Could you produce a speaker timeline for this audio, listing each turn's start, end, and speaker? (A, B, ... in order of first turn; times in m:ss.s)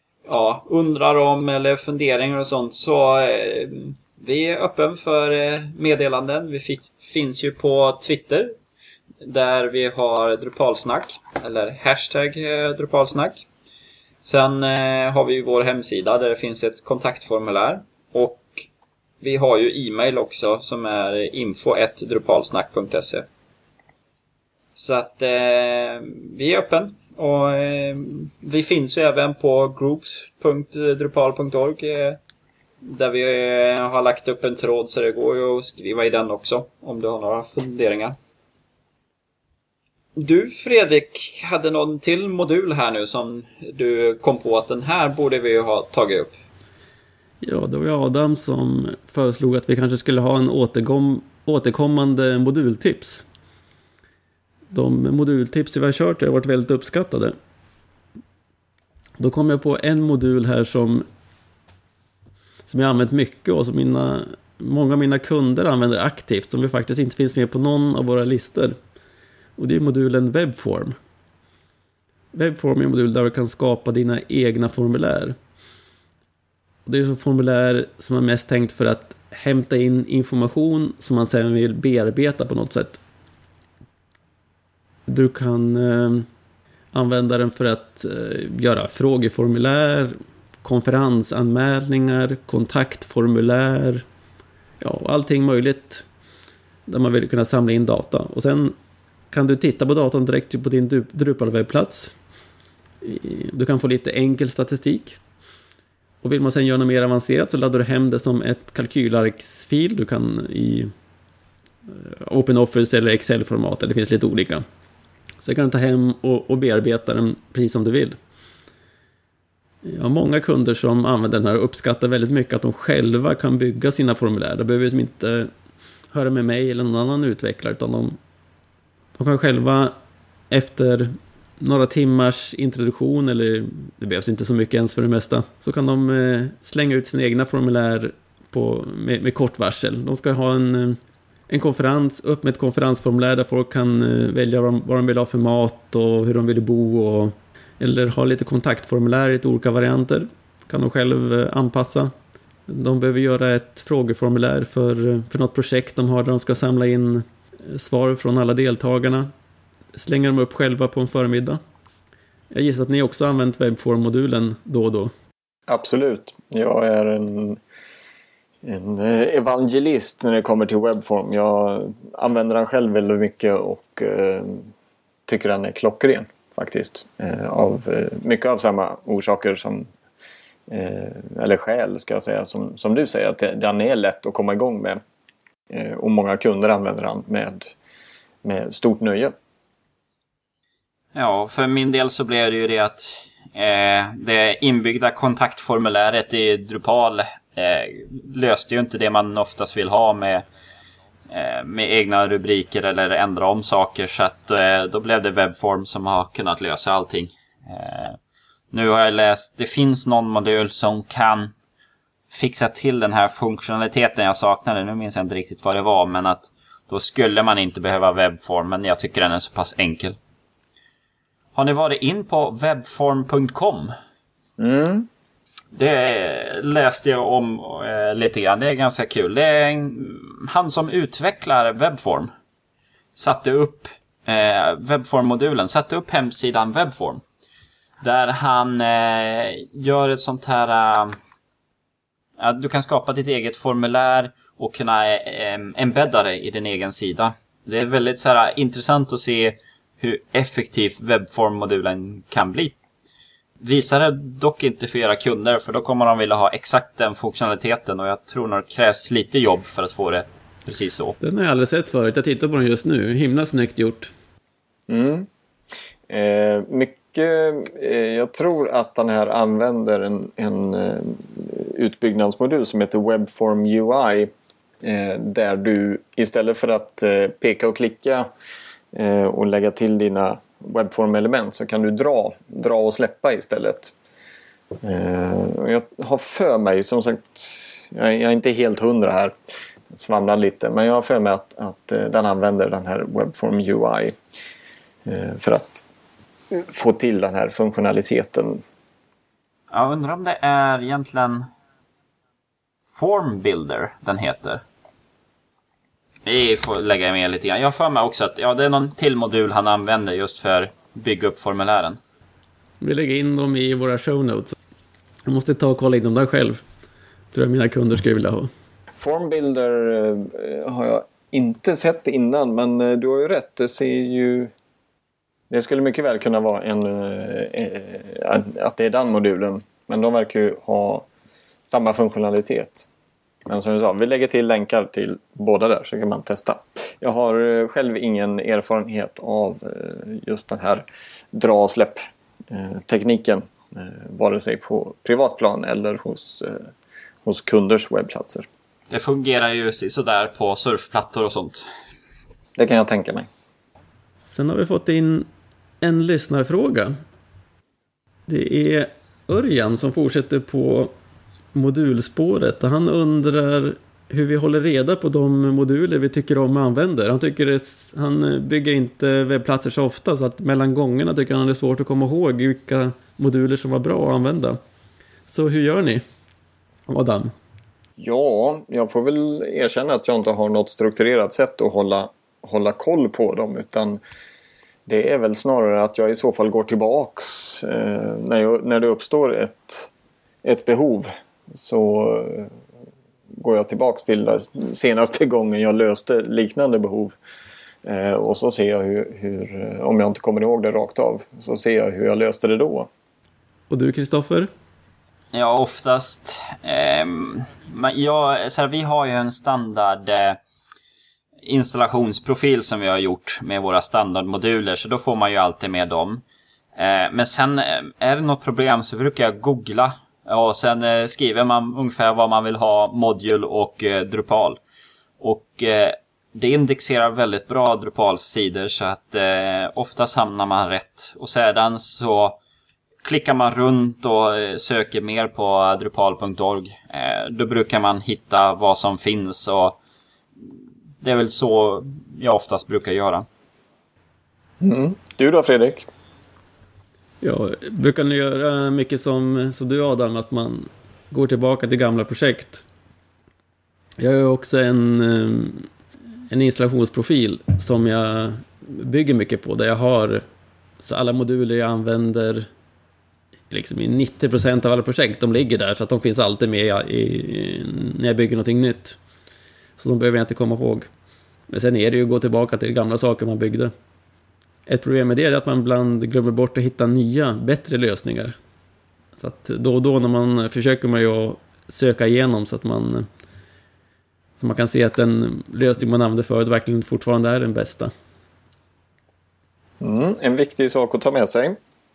0:00.3-0:08.5 A
0:09.2-0:13.5 A
0:14.2-0:18.6 A
0:19.2-0:23.3 A
0:24.8-0:32.2 A
0:32.8-0:38.2 A
0:40.2-0:46.4 A
0:47.4-0:53.3 B
0:54.7-0:57.3 B
0:59.2-1:01.1 B
1:02.7-1:08.7 B
1:09.6-1:11.0 B
1:12.3-1:15.4 B
1:16.9-1:23.0 B
1:25.1-1:26.3 B
1:26.9-1:34.0 B
1:34.8-1:36.1 B
1:36.9-1:38.7 B
1:39.3-1:42.1 B
1:43.0-1:45.2 B
1:46.2-1:50.9 B
1:51.9-1:54.6 B
1:55.4-1:58.2 B
1:59.8-2:05.5 B
2:06.1-2:08.2 B
2:09.2-2:09.9 B
2:10.5-2:32.1 B
2:32.7-2:39.3 B
2:39.9-2:41.6 B
2:42.5-2:45.1 B
2:45.7-2:47.6 C
2:48.6-2:54.7 C
2:55.3-2:59.9 C
3:00.7-3:05.0 C
3:05.7-3:07.7 C
3:08.4-3:09.4 C
3:11.1-3:20.4 A
3:21.3-3:28.2 A
3:28.7-3:31.5 A
3:32.3-3:40.2 A
3:41.6-3:43.9 A
3:44.6-3:45.1 C
3:45.7-3:52.3 A
3:53.2-3:57.2 A
3:58.0-4:01.2 A
4:02.4-4:12.7 A
4:13.6-4:21.2 A
4:21.2-4:24.1 B
4:24.9-4:25.3 C
4:26.1-4:34.3 C
4:34.8-4:38.3 C
4:38.9-4:43.9 C
4:44.8-4:49.3 C
4:49.9-4:54.2 C
4:55.1-4:55.8 C
4:56.5-4:58.6 C
4:59.7-5:01.5 A
5:02.9-5:04.6 A
5:06.3-5:12.0 A
5:12.8-5:14.6 B
5:15.3-5:16.6 B
5:17.3-5:18.5 B
5:19.0-5:24.5 C
5:25.5-5:31.1 C
5:31.7-5:32.9 C
5:33.5-5:46.7 C
5:47.2-5:48.5 C
5:48.9-5:51.7 A
5:52.6-5:53.3 C
5:54.2-5:55.3 B
5:55.8-5:57.0 B
5:58.3-6:00.9 B
6:01.5-6:14.6 B
6:15.3-6:16.0 B
6:16.9-6:17.3 B
6:18.0-6:24.0 C
6:24.9-6:29.9 C
6:30.4-6:32.5 C
6:33.4-6:37.1 C
6:37.8-6:42.9 C
6:43.7-6:44.5 B
6:45.3-6:50.4 A
6:51.4-6:56.2 A
6:56.8-7:04.6 A
7:05.2-7:12.4 A
7:13.0-7:19.8 A
7:21.0-7:23.3 A
7:24.6-7:25.9 C
7:27.2-7:32.7 B
7:34.0-7:35.7 B
7:36.3-7:40.2 B
7:40.8-7:42.5 B
7:43.5-7:49.0 B
7:49.8-7:50.9 B
7:51.5-7:53.7 B
7:54.7-7:58.4 B
7:59.2-8:03.1 B
8:04.4-8:07.9 B
8:09.8-8:11.6 C